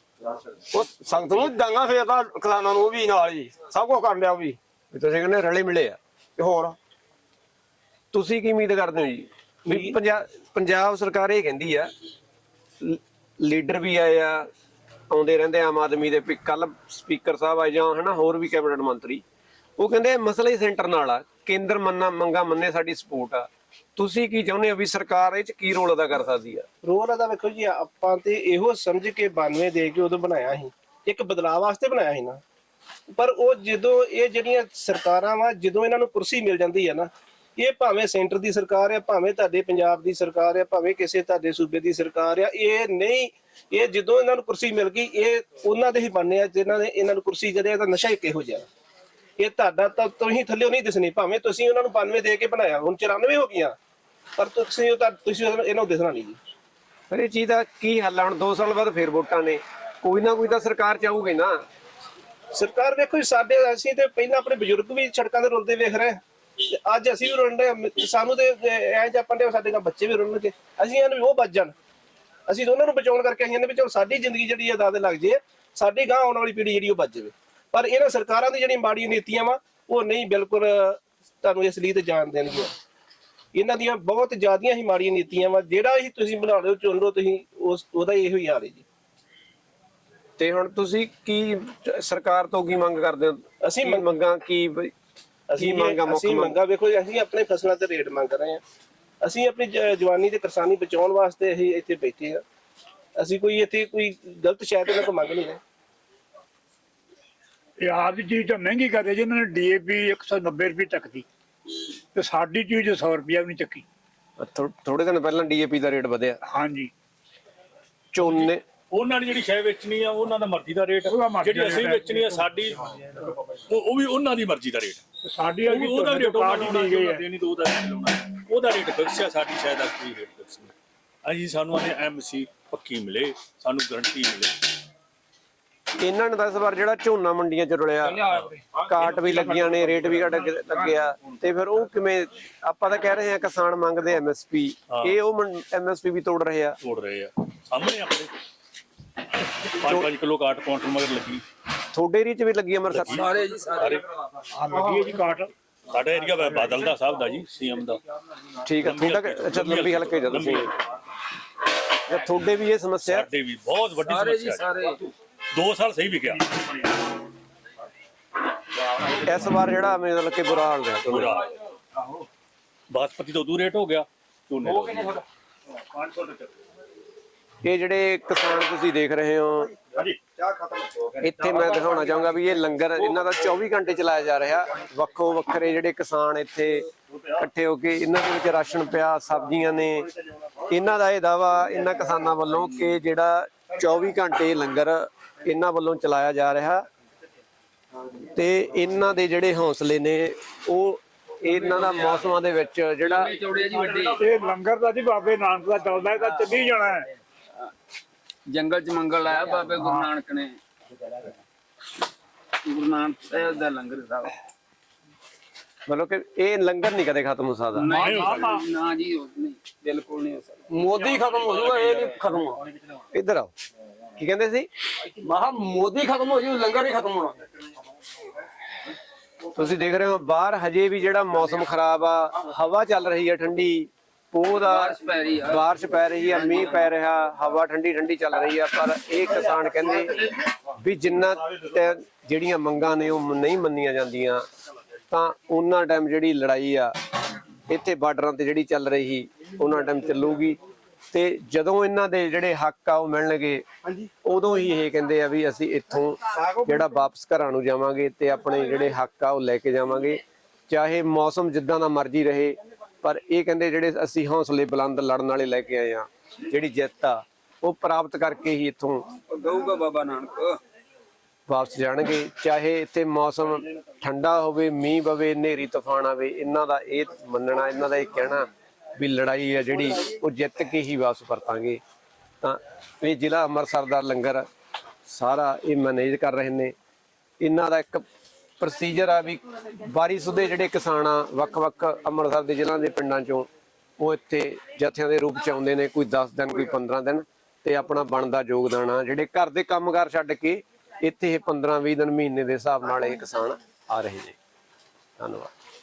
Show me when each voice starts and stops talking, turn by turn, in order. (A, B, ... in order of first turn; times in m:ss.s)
0:00.7-0:04.6 A
0:04.9-0:06.0 B
0:06.4-0:06.8 A
0:08.1-0:11.9 B
0:12.8-0:14.5 B
0:15.1-0:19.2 B
0:19.8-0:26.7 B
0:26.8-0:32.4 C
0:33.1-0:48.7 C
0:49.4-0:53.8 C
0:54.4-0:56.4 C
0:57.1-1:01.6 B
1:02.5-1:11.7 C
1:12.5-1:22.7 C
1:23.5-1:28.8 C
1:30.4-1:34.9 B
1:33.6-1:34.1 C
1:35.5-1:38.6 C
1:35.6-1:36.6 B
1:39.2-1:42.4 C
1:43.2-1:45.6 C
1:47.8-1:51.3 D
1:52.1-1:53.8 D
1:54.4-1:56.4 B
1:56.4-1:56.9 D
1:58.1-1:58.6 B
1:58.2-2:03.0 E
2:01.1-2:02.4 D
2:03.7-2:05.0 E
2:05.2-2:07.2 D
2:05.7-2:10.7 E
2:11.2-2:14.6 E
2:16.0-2:18.2 B
2:18.1-2:19.1 E
2:18.8-2:26.8 B
2:24.9-2:25.2 E
2:26.8-2:28.3 E
2:29.7-2:31.4 E
2:31.9-2:33.2 B
2:32.9-2:34.1 E
2:33.1-2:34.0 F
2:34.6-2:35.5 D
2:34.7-2:35.0 E
2:35.9-2:38.0 E
2:38.6-2:40.7 B
2:38.8-2:41.0 E
2:42.0-2:43.3 B
2:43.0-2:44.7 E
2:44.0-2:45.0 F
2:45.5-2:46.8 E
2:49.2-2:51.4 B
2:51.1-2:51.5 E
2:52.9-2:55.2 E
2:56.0-2:56.5 E
2:57.6-2:59.7 B
3:01.2-3:10.1 B
3:10.7-3:16.8 B
3:18.3-3:23.3 B
3:21.5-3:22.1 F
3:23.0-3:24.2 F
3:23.7-3:27.1 D
3:28.5-3:30.6 F
3:32.6-3:34.4 F
3:35.9-3:37.9 B
3:37.8-3:40.6 F
3:37.8-3:38.7 D
3:40.7-3:42.6 A
3:43.1-3:43.5 B
3:44.2-3:44.7 B
3:45.2-3:47.4 A
3:49.5-4:04.4 B
3:54.6-3:55.7 F
3:56.2-3:56.8 F
4:05.1-4:07.0 B
4:07.7-4:10.6 B
4:11.1-4:13.6 B
4:14.2-4:29.1 B
4:29.3-4:30.6 F
4:31.5-4:41.8 B
4:42.4-4:44.5 B
4:45.1-4:46.7 B
4:47.4-4:48.0 B
4:48.6-5:04.4 B
5:05.2-5:05.5 B